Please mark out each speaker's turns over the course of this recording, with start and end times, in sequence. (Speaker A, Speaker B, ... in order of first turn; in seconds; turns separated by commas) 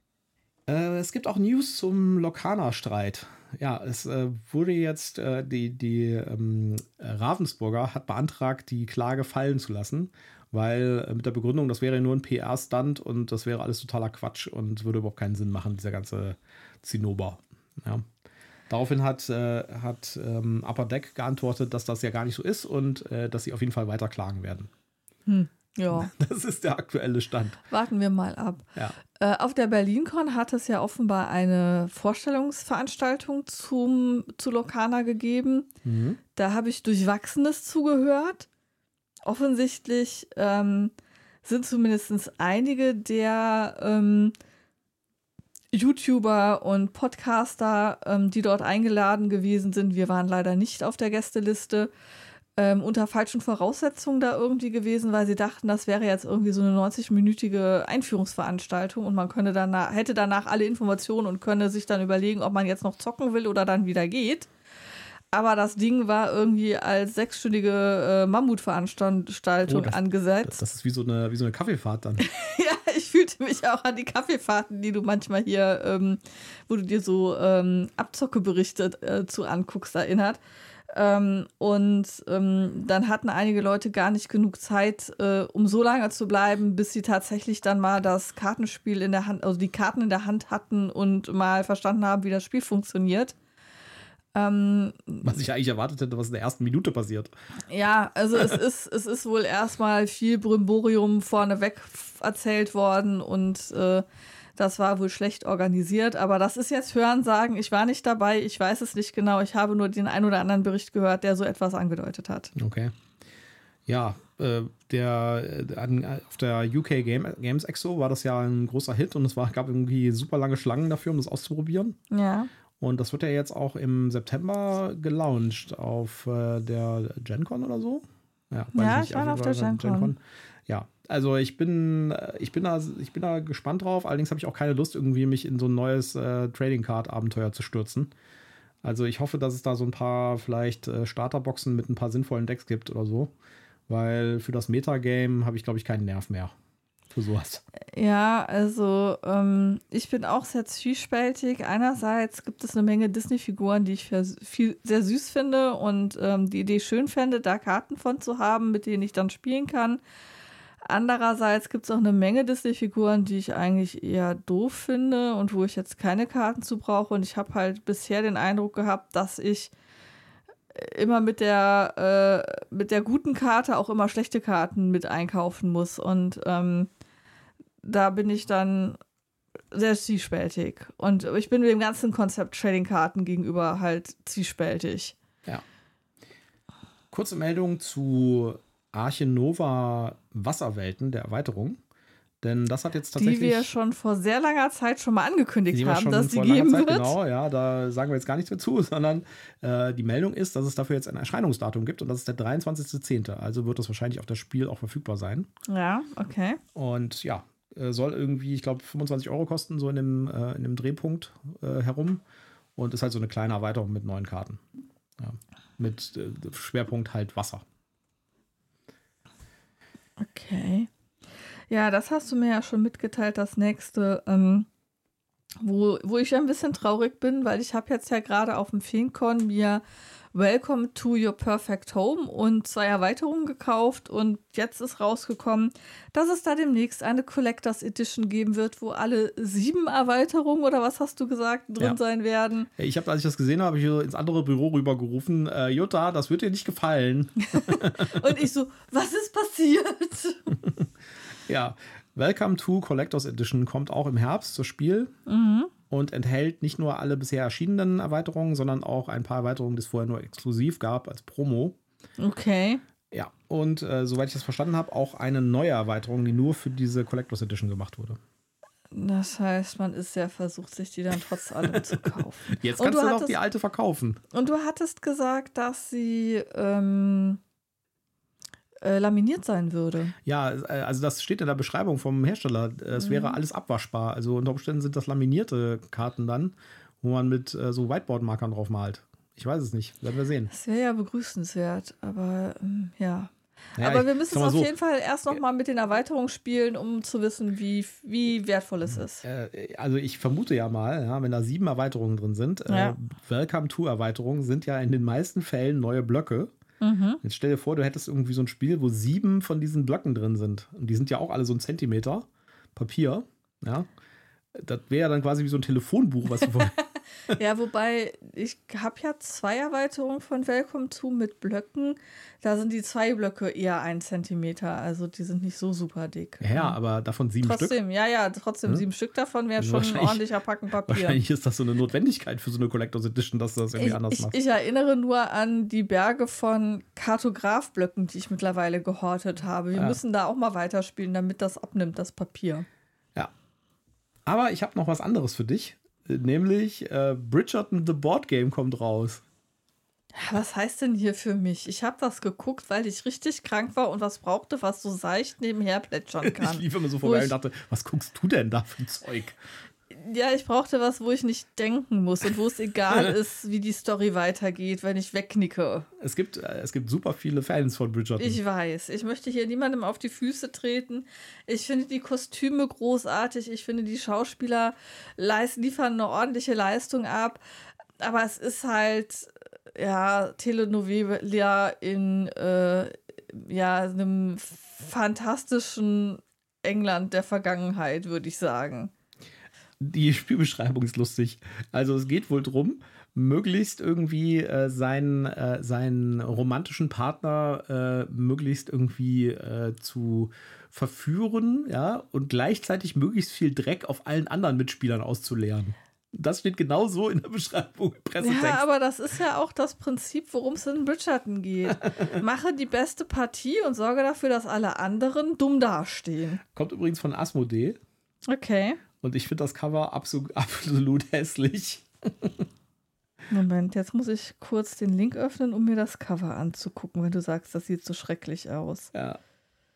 Speaker A: 0.7-18.1, Speaker A: 18.7-24.7, Speaker B: 25.3-26.1, Speaker A: 25.9-27.6, Speaker B: 27.7-35.7, Speaker A: 35.8-36.2, Speaker B: 36.4-38.5, Speaker B: 39.3-40.9, Speaker B: 41.4-44.4, Speaker B: 45.7-51.9, Speaker B: 52.6-64.5, Speaker B: 65.3-70.6, Speaker A: 69.7-72.2, Speaker B: 72.2-80.4, Speaker B: 80.9-93.3, Speaker B: 94.3-95.3, Speaker A: 95.2-97.3, Speaker B: 97.7-104.0, Speaker B: 104.6-112.5, Speaker A: 112.5-112.9, Speaker A: 113.9-122.0, Speaker B: 122.1-122.5, Speaker A: 122.8-138.1, Speaker B: 128.8-130.1, Speaker A: 138.8-143.3, Speaker A: 143.9-146.5, Speaker A: 147.1-147.6, Speaker B: 147.9-160.0, Speaker B: 160.8-169.7, Speaker B: 170.7-176.9, Speaker B: 177.8-179.0, Speaker B: 179.7-185.2, Speaker A: 187.1-191.8, Speaker A: 192.4-193.7, Speaker B: 193.2-197.1, Speaker A: 195.7-205.5, Speaker B: 205.7-206.6, Speaker A: 206.8-212.2, Speaker A: 212.8-214.6, Speaker A: 215.2-217.6, Speaker B: 220.2-220.9, Speaker B: 221.7-224.7, Speaker B: 225.6-229.8, Speaker B: 230.3-242.7, Speaker A: 242.8-248.4, Speaker B: 247.4-250.5, Speaker A: 250.5-250.9, Speaker A: 251.5-255.1, Speaker B: 255.3-255.7, Speaker A: 255.9-261.8, Speaker B: 262.2-262.8, Speaker A: 263.1-268.2, Speaker B: 268.9-273.4, Speaker A: 271.6-274.2, Speaker B: 274.3-277.4, Speaker B: 278.8-280.1, Speaker A: 280.2-290.5, Speaker B: 283.0-283.4, Speaker B: 290.5-299.2, Speaker A: 293.8-294.7, Speaker A: 299.2-306.5, Speaker B: 302.7-302.9, Speaker B: 306.8-307.2, Speaker A: 307.2-313.9, Speaker A: 314.5-316.8, Speaker B: 316.4-326.8, Speaker A: 326.4-327.8, Speaker B: 327.4-331.2, Speaker A: 329.6-330.2, Speaker A: 330.9-334.4, Speaker B: 333.8-342.7, Speaker A: 344.3-349.2, Speaker B: 350.1-357.3, Speaker A: 356.2-359.4, Speaker B: 359.9-365.9, Speaker A: 366.0-368.4, Speaker B: 368.2-377.4, Speaker B: 378.0-388.9, Speaker A: 389.8-408.6, Speaker B: 408.2-416.4, Speaker A: 411.7-412.2, Speaker A: 416.5-417.8, Speaker B: 418.3-418.8, Speaker A: 419.0-422.5, Speaker B: 423.3-428.9, Speaker A: 428.9-429.2